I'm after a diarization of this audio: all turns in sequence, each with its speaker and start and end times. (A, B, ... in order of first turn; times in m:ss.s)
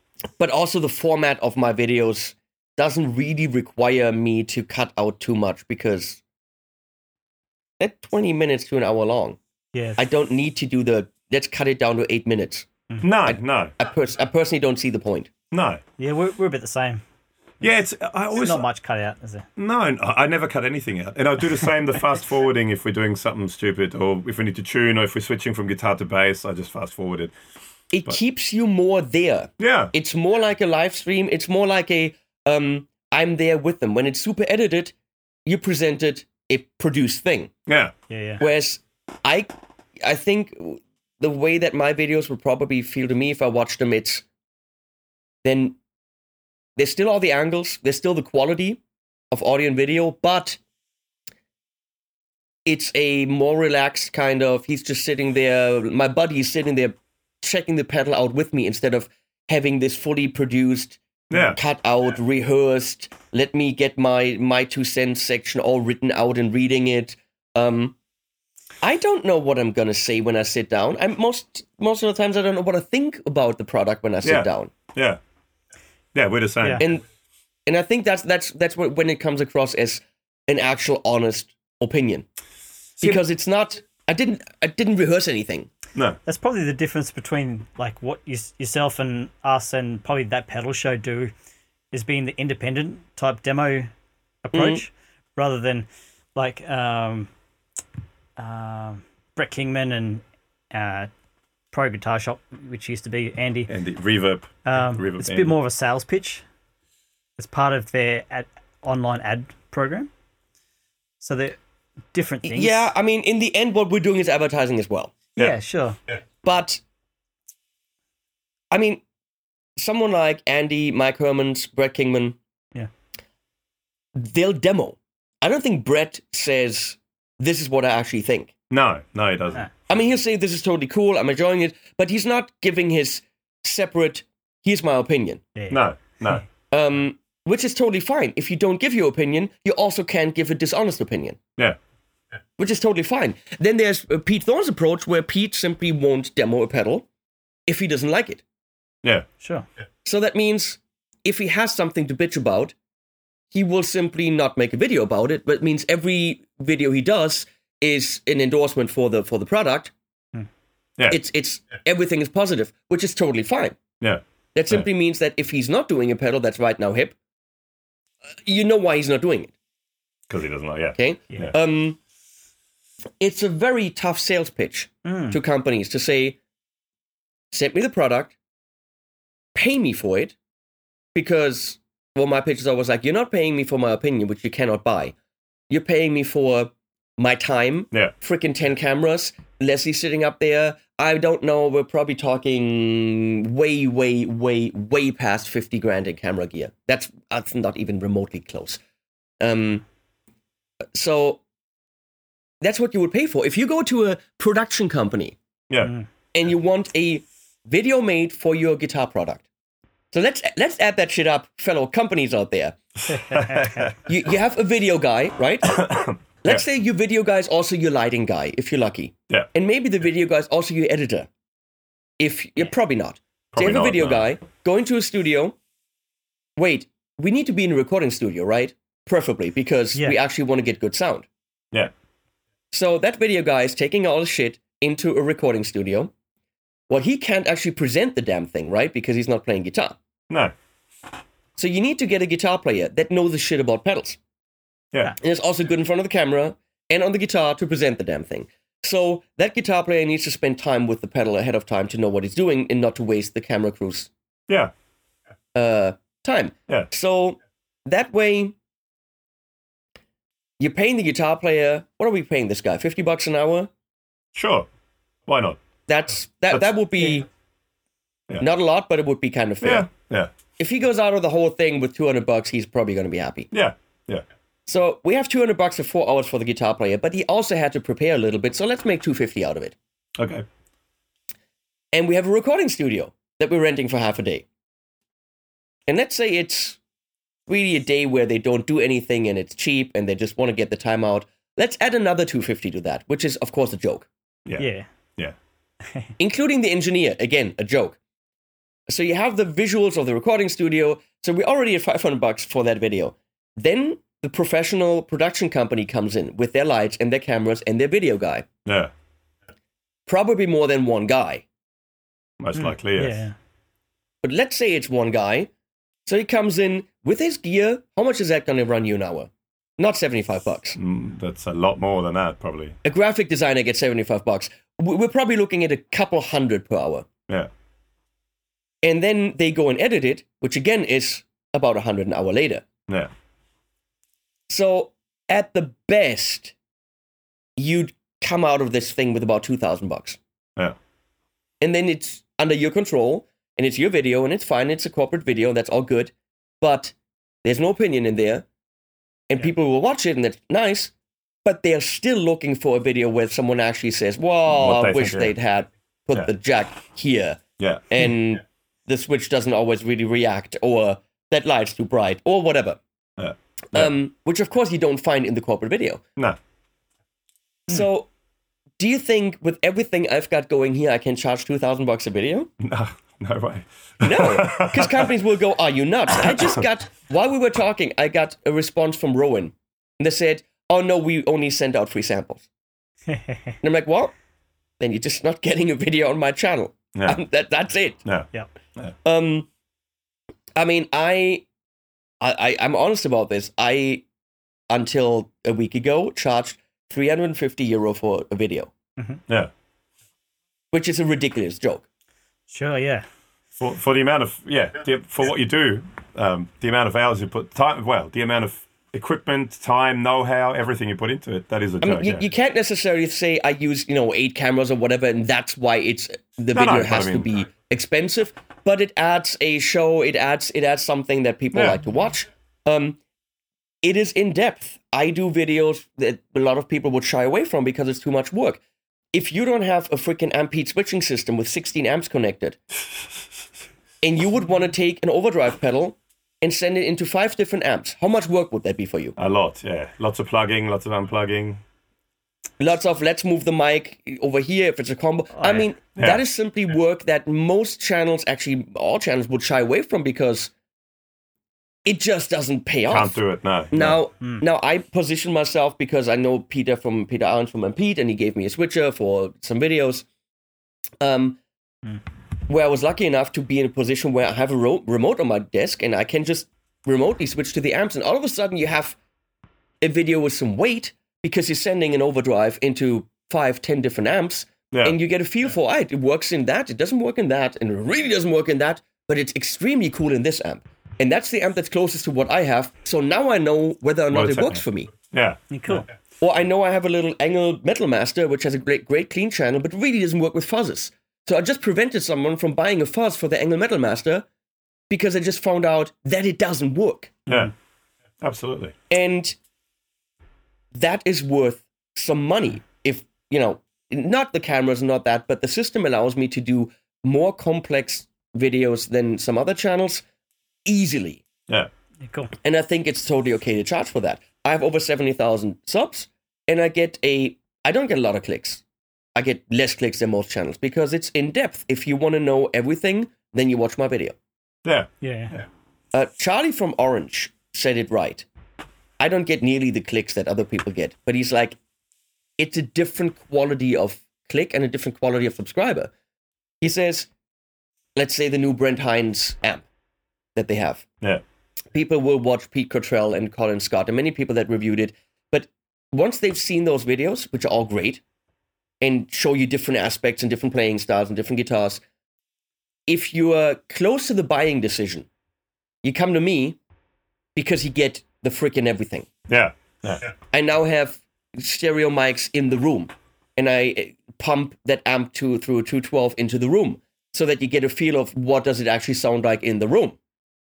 0:00.4-0:06.2 A
0:07.8-0:09.4 A
0:09.7-0:10.0 B
0:10.0-0:12.7 A
0:13.0-0:13.7 C
0:13.2-0:15.3 A
0:15.5-0:15.8 C
0:16.0-0:17.0 B
0:17.6-0:18.6 C
0:18.4-0:19.5 B
0:19.6-0:27.3 C
0:27.9-0:35.0 A
0:29.6-0:29.9 C
0:35.5-0:37.5 A
0:37.7-0:37.9 C
0:38.1-0:38.4 B
0:38.4-0:39.5 A
0:40.0-0:44.2 A
0:45.4-0:45.8 A
0:46.8-0:50.6 A
0:52.7-1:08.0 A
1:01.3-1:01.6 C
1:08.8-1:14.7 A
1:14.2-1:15.2 C
1:16.2-1:16.9 C
1:17.7-1:22.3 A
1:23.0-1:25.7 A
1:26.3-1:31.3 B
1:31.9-1:33.9 B
1:34.5-1:37.3 B
1:34.5-1:34.8 A
1:38.4-1:41.1 B
1:41.7-1:43.7 B
1:43.7-1:45.6 C
1:44.7-1:46.4 B
1:47.4-1:50.1 B
1:51.2-1:51.6 B
1:52.1-1:52.9 B
1:52.4-1:55.1 A
1:55.4-1:56.0 B
1:56.4-1:56.8 A
1:58.7-1:59.0 A
1:59.8-2:02.4 A
2:04.2-2:08.5 A
2:08.7-2:09.7 C
2:09.9-2:15.4 A
2:15.6-2:16.4 B
2:15.7-2:16.4 C
2:16.7-2:21.4 A
2:22.6-2:27.1 A
2:27.7-2:28.4 A
2:29.4-2:29.7 B
2:30.0-2:32.8 A
2:33.5-2:39.9 A
2:41.1-2:43.8 A
2:44.0-2:44.9 C
2:44.6-2:47.2 A
2:48.4-2:49.5 A
2:50.3-2:51.6 C
2:51.0-2:52.0 A
2:53.2-2:56.4 A
2:55.0-2:55.4 B
2:57.5-2:58.4 A
2:59.6-3:00.4 A
3:01.2-3:05.1 A
3:05.7-3:18.8 A
3:19.4-3:19.8 A
3:20.9-3:21.4 A
3:22.6-3:25.4 A
3:25.7-3:26.0 C
3:26.3-3:29.5 A
3:30.1-3:32.8 A
3:33.1-3:33.9 C
3:33.3-3:33.9 B
3:34.0-3:35.8 A
3:35.6-3:36.6 C
3:36.4-3:41.3 A
3:42.2-3:45.6 A
3:43.5-3:44.3 C
3:46.6-3:51.3 A
3:52.7-3:56.1 A
3:56.9-4:00.0 A
4:01.6-4:04.2 A
4:05.2-4:14.1 A
4:15.6-4:18.6 A
4:20.6-4:23.7 A
4:24.3-4:24.7 C
4:25.3-4:25.6 C
4:25.9-4:27.3 A
4:28.4-4:29.9 A
4:29.6-4:30.3 C
4:30.6-4:33.5 A
4:33.5-4:34.2 C
4:34.7-4:39.8 A
4:40.2-4:40.5 C
4:41.9-4:44.5 A
4:45.9-4:46.8 A
4:47.5-4:54.1 A
4:54.5-4:55.4 C
4:54.6-4:54.9 B
4:56.2-4:58.0 A
4:58.9-5:08.5 A
5:08.6-5:08.9 C
5:10.1-5:11.5 A
5:12.4-5:13.2 C
5:12.6-5:13.4 B
5:14.2-5:15.5 A
5:16.1-5:20.8 A
5:20.8-5:22.8 C
5:22.8-5:27.1 A
5:28.8-5:32.7 A
5:34.5-5:36.6 A
5:37.6-5:40.2 A
5:41.6-5:48.5 A
5:49.3-5:50.9 A
5:51.4-6:02.8 A
5:54.5-5:55.3 C
5:57.6-5:57.8 C
6:03.2-6:03.9 C
6:03.7-6:06.0 A
6:07.7-6:08.1 A
6:08.8-6:12.5 A
6:12.6-6:15.1 C
6:14.0-6:22.5 A
6:16.2-6:16.6 C
6:23.6-6:24.1 A
6:24.8-6:28.0 A
6:28.0-6:28.9 C
6:29.0-6:29.5 A
6:30.6-6:31.4 A
6:32.2-6:34.0 A
6:34.7-6:38.7 A
6:40.7-6:41.9 A
6:42.5-6:43.0 B
6:43.6-6:52.2 C
6:51.8-7:03.0 A
6:56.5-6:57.3 C
7:01.5-7:01.8 C
7:03.8-7:08.6 A
7:09.1-7:12.6 A
7:14.0-7:19.2 A
7:19.2-7:21.6 C
7:22.6-7:30.5 A
7:25.3-7:25.7 B
7:26.0-7:26.2 C
7:31.8-7:33.2 A
7:32.9-7:34.0 C
7:33.7-7:40.1 A
7:41.0-7:41.4 A
7:42.5-7:49.0 A
7:49.8-8:04.9 A
7:54.7-7:55.0 C
8:04.1-8:05.9 C
8:05.5-8:05.9 B
8:06.2-8:14.2 A
8:14.9-8:17.2 A
8:18.2-8:18.8 C
8:18.9-8:19.4 A
8:20.7-8:30.0 A
8:30.7-8:31.2 A
8:32.0-8:32.3 B
8:32.4-8:38.6 A
8:39.2-8:44.2 A
8:44.6-8:45.4 C
8:45.0-8:45.4 B
8:45.9-8:48.3 A
8:49.0-8:51.6 A
8:52.4-8:55.9 A
8:56.6-8:57.1 A
8:58.0-8:59.6 A
9:00.4-9:00.9 A
9:01.7-9:08.0 A
9:08.8-9:11.8 A
9:12.9-9:15.1 A
9:15.8-9:16.6 A
9:17.4-9:19.1 A
9:19.3-9:20.1 C
9:20.3-9:30.0 A